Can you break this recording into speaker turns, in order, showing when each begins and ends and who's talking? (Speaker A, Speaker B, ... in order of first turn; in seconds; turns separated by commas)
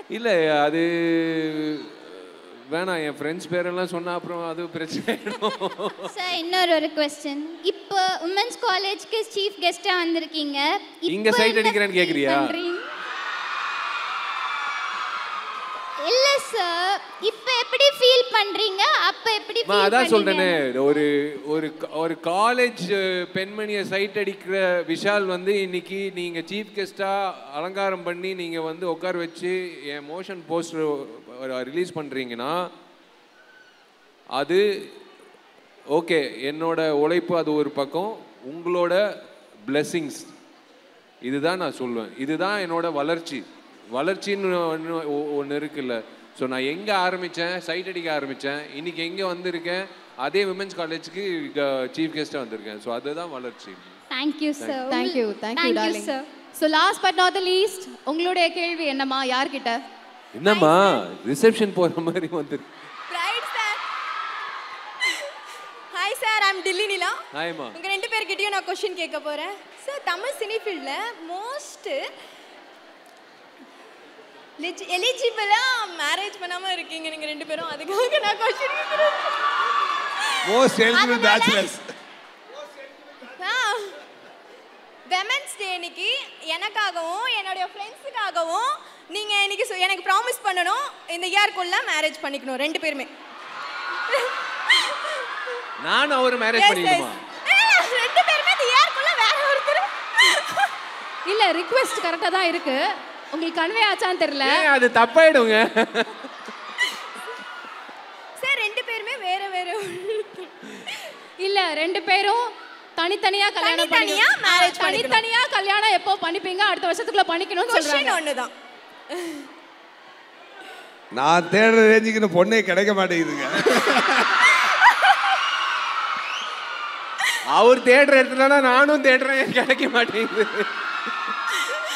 Speaker A: 0.1-6.2, Speaker B: 6.0-12.8, Speaker A: 11.1-12.6, Speaker B: 16.0-20.6, Speaker A: 19.6-32.5, Speaker A: 34.3-34.6, Speaker A: 35.9-39.0, Speaker A: 39.7-40.3, Speaker A: 41.2-54.0, Speaker B: 54.1-56.3, Speaker C: 54.9-59.8, Speaker A: 60.3-62.6, Speaker D: 60.4-61.0, Speaker D: 63.1-63.8, Speaker D: 65.9-67.2, Speaker A: 67.3-67.8, Speaker D: 67.7-72.0, Speaker D: 74.6-79.4, Speaker D: 80.2-81.7, Speaker E: 80.5-81.8, Speaker D: 83.3-83.9, Speaker D: 85.1-93.1, Speaker D: 94.1-95.1, Speaker A: 95.8-97.2, Speaker D: 96.5-100.7, Speaker C: 101.2-104.7, Speaker A: 104.4-106.2, Speaker D: 108.4-111.0, Speaker C: 111.4-112.4, Speaker C: 113.0-118.2, Speaker D: 113.6-115.2, Speaker D: 117.6-118.5, Speaker D: 119.1-119.4, Speaker E: 121.1-124.5, Speaker A: 127.5-130.7